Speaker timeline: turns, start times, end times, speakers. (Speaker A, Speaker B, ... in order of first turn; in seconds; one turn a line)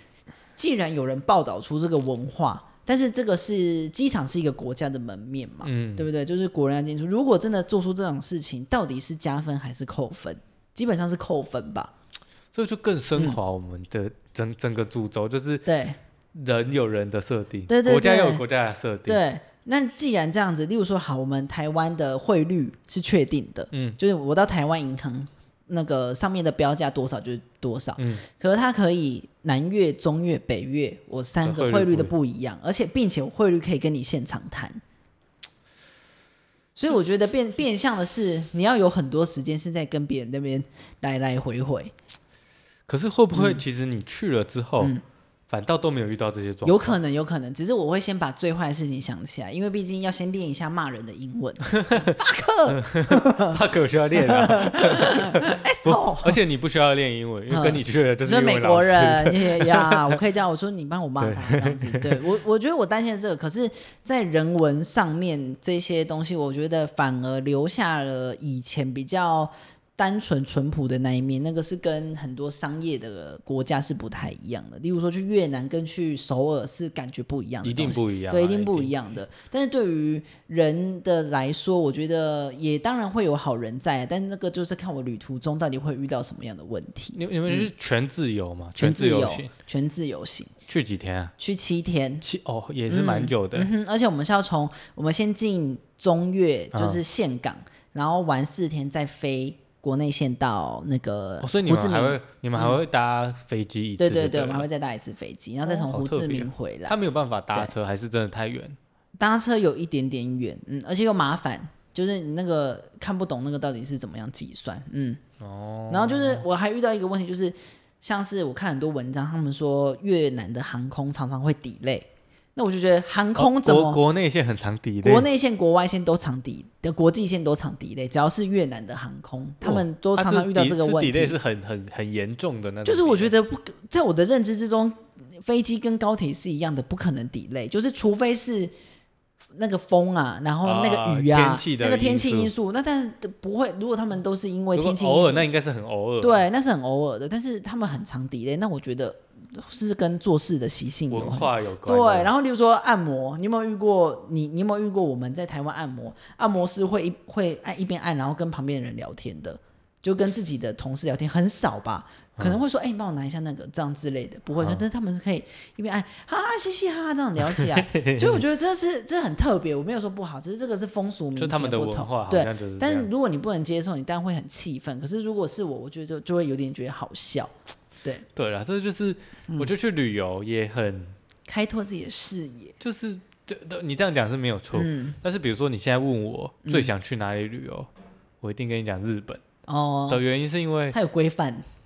Speaker A: 0.6-11.9
Speaker B: 5.6-6.1
Speaker B: 12.5-15.7
Speaker A: 15.7-16.0
Speaker B: 16.3-19.2
Speaker A: 17.7-18.4
Speaker A: 19.1-34.8
Speaker B: 23.7-24.0
Speaker B: 28.0-28.2
Speaker B: 31.4-32.1
Speaker A: 36.8-41.9
Speaker B: 42.9-44.9
Speaker A: 43.3-43.6
Speaker B: 45.5-47.0
Speaker A: 46.6-53.6
Speaker B: 51.7-52.1
Speaker B: 52.8-60.2
Speaker A: 54.1-56.4
Speaker A: 57.5-87.7
Speaker B: 61.2-62.2
Speaker B: 77.6-79.0
Speaker B: 87.1-89.5
Speaker A: 88.7-90.5
Speaker B: 90.7-91.3
Speaker A: 91.4-92.2
Speaker B: 92.2-93.7
Speaker A: 92.9-102.8
Speaker B: 96.7-97.0
Speaker B: 101.4-104.7
Speaker A: 104.0-107.0
Speaker B: 105.7-108.8
Speaker A: 109.2-115.2
Speaker B: 115.4-116.4
Speaker A: 115.9-124.0
Speaker B: 123.3-125.3
Speaker A: 125.0-131.4
Speaker B: 129.6-133.3
Speaker A: 132.8-138.7
Speaker A: 139.5-145.5
Speaker B: 140.6-142.5
Speaker B: 144.7-146.5
Speaker A: 146.2-177.5
Speaker B: 151.1-152.3
Speaker B: 167.5-168.4
Speaker B: 171.3-173.1
Speaker B: 178.3-181.2
Speaker A: 181.5-182.8
Speaker B: 182.8-187.9
Speaker A: 184.7-185.2
Speaker A: 186.6-186.9
Speaker B: 188.4-189.4
Speaker A: 189.7-190.2
Speaker B: 190.1-190.9
Speaker A: 190.9-191.6